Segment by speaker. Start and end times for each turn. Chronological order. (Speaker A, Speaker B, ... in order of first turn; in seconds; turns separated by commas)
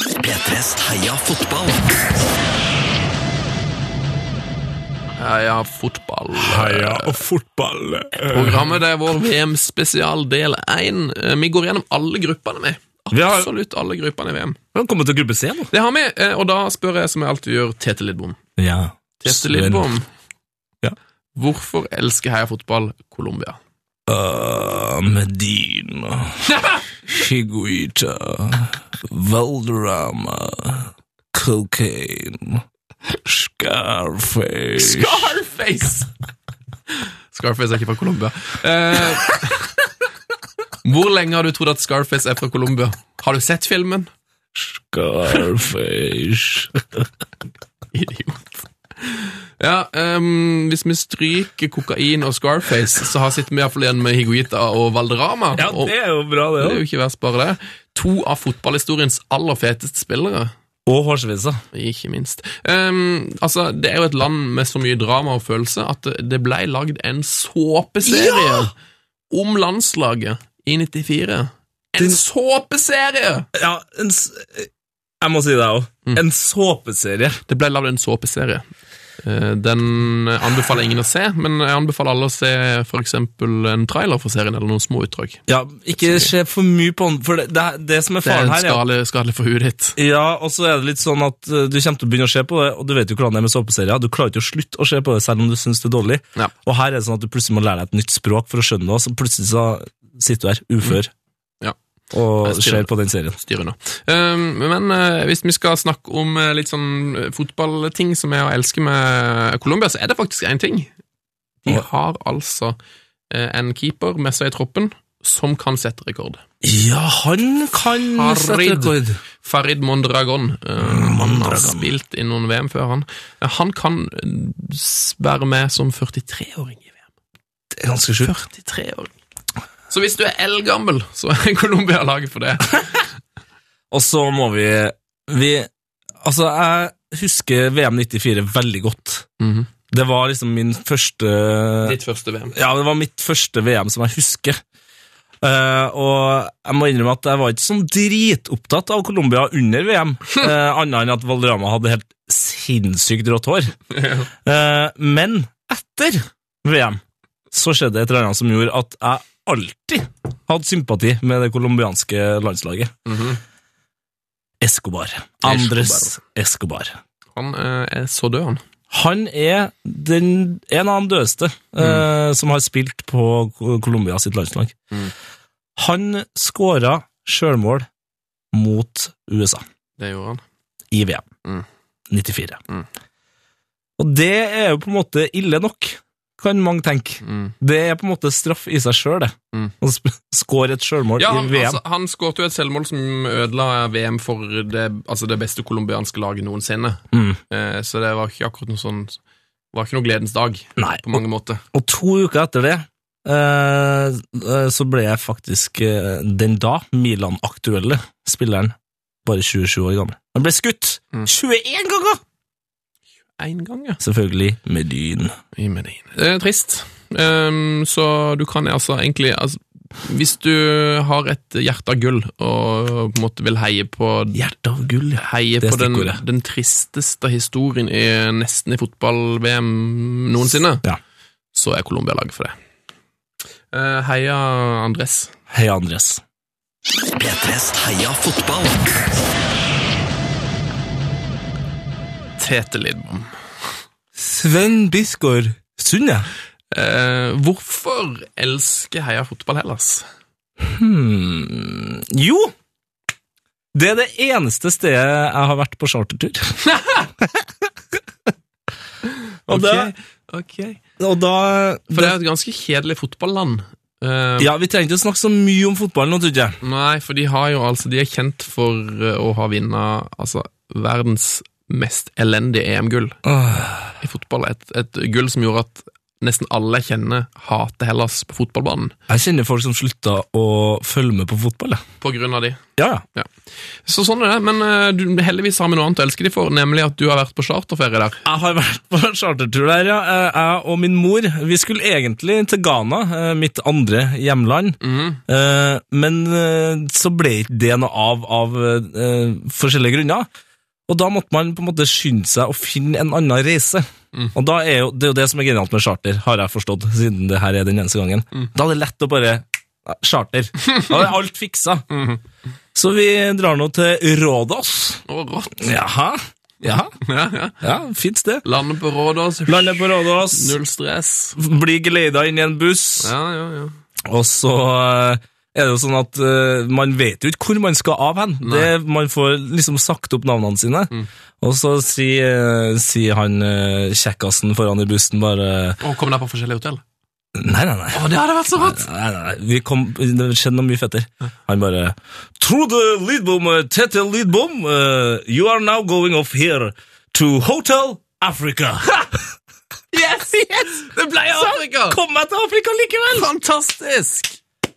Speaker A: 0.2-2.0, Speaker B: 5.2-7.2, Speaker C: 6.3-8.8, Speaker B: 8.2-14.6, Speaker C: 13.1-13.5, Speaker C: 14.7-15.7, Speaker B: 15.7-18.4, Speaker C: 18.6-19.9, Speaker B: 19.2-20.1, Speaker B: 21.3-23.6, Speaker C: 24.1-26.4, Speaker B: 26.5-26.8, Speaker C: 27.1-32.6, Speaker C: 33.2-35.3, Speaker B: 34.8-36.1, Speaker B: 37.3-39.7, Speaker B: 40.8-44.1, Speaker C: 44.5-47.1, Speaker B: 47.9-55.9, Speaker C: 55.5-56.8, Speaker B: 56.6-60.5, Speaker C: 60.9-61.6, Speaker B: 61.7-68.7, Speaker C: 68.0-68.7, Speaker B: 69.3-73.5, Speaker C: 73.5-74.7, Speaker C: 75.2-77.4, Speaker B: 77.5-78.7, Speaker B: 79.2-85.4, Speaker C: 85.5-88.8, Speaker B: 85.9-86.3, Speaker B: 88.2-90.0, Speaker C: 90.0-101.1, Speaker C: 102.1-103.3, Speaker B: 102.4-110.9, Speaker B: 111.6-112.8, Speaker B: 113.3-116.4, Speaker C: 116.6-119.2, Speaker B: 118.0-127.0, Speaker C: 120.8-121.9, Speaker C: 127.7-128.3, Speaker B: 128.2-129.1, Speaker B: 129.9-133.1, Speaker C: 133.9-135.7, Speaker C: 136.2-139.2, Speaker B: 139.4-139.7, Speaker C: 139.9-142.0, Speaker B: 141.8-142.5, Speaker C: 142.5-144.6, Speaker C: 145.4-153.8, Speaker B: 153.9-154.3, Speaker C: 154.4-157.0, Speaker C: 157.5-162.9, Speaker B: 163.1-163.4, Speaker C: 164.6-167.0, Speaker B: 165.4-166.2, Speaker B: 167.3-168.6, Speaker C: 168.9-174.8, Speaker C: 175.8-177.9, Speaker C: 178.5-179.6, Speaker B: 180.0-180.4, Speaker C: 180.9-181.2, Speaker C: 182.1-182.6, Speaker C: 184.0-191.8, Speaker B: 187.2-187.5, Speaker B: 191.2-199.2, Speaker C: 197.1-197.4, Speaker B: 199.7-201.6, Speaker C: 200.8-201.2, Speaker C: 201.7-212.2, Speaker B: 213.4-214.0, Speaker C: 214.0-215.3, Speaker B: 215.5-224.4, Speaker C: 224.3-226.2, Speaker B: 225.2-230.8, Speaker B: 231.5-232.5, Speaker B: 233.7-235.3, Speaker C: 235.5-236.2, Speaker A: 237.2-238.9, Speaker B: 242.4-243.3, Speaker C: 244.1-246.3, Speaker B: 246.7-250.1, Speaker C: 250.6-252.5, Speaker C: 253.7-256.6, Speaker B: 256.6-257.1, Speaker C: 257.2-257.5, Speaker B: 259.5-260.8, Speaker C: 259.5-259.9, Speaker C: 261.0-262.1, Speaker B: 261.9-264.5, Speaker C: 264.4-266.6, Speaker B: 266.6-273.2, Speaker C: 273.2-274.0, Speaker B: 274.0-278.9, Speaker C: 279.1-281.8, Speaker B: 282.0-282.6, Speaker C: 282.8-283.0, Speaker B: 283.8-288.2, Speaker C: 288.2-300.3, Speaker B: 294.8-295.2, Speaker C: 300.9-311.8, Speaker B: 311.9-312.2, Speaker C: 312.7-315.0, Speaker B: 315.1-315.7, Speaker C: 315.6-316.9, Speaker B: 317.0-317.6, Speaker C: 317.6-318.4, Speaker B: 318.4-321.4, Speaker C: 319.5-320.5, Speaker C: 321.4-323.1, Speaker B: 323.0-323.7, Speaker C: 324.1-335.8, Speaker B: 328.4-328.7, Speaker B: 335.8-336.8, Speaker C: 337.3-338.0, Speaker B: 337.9-338.9, Speaker C: 338.6-349.3, Speaker B: 349.9-352.0, Speaker C: 351.3-353.3, Speaker B: 353.1-354.4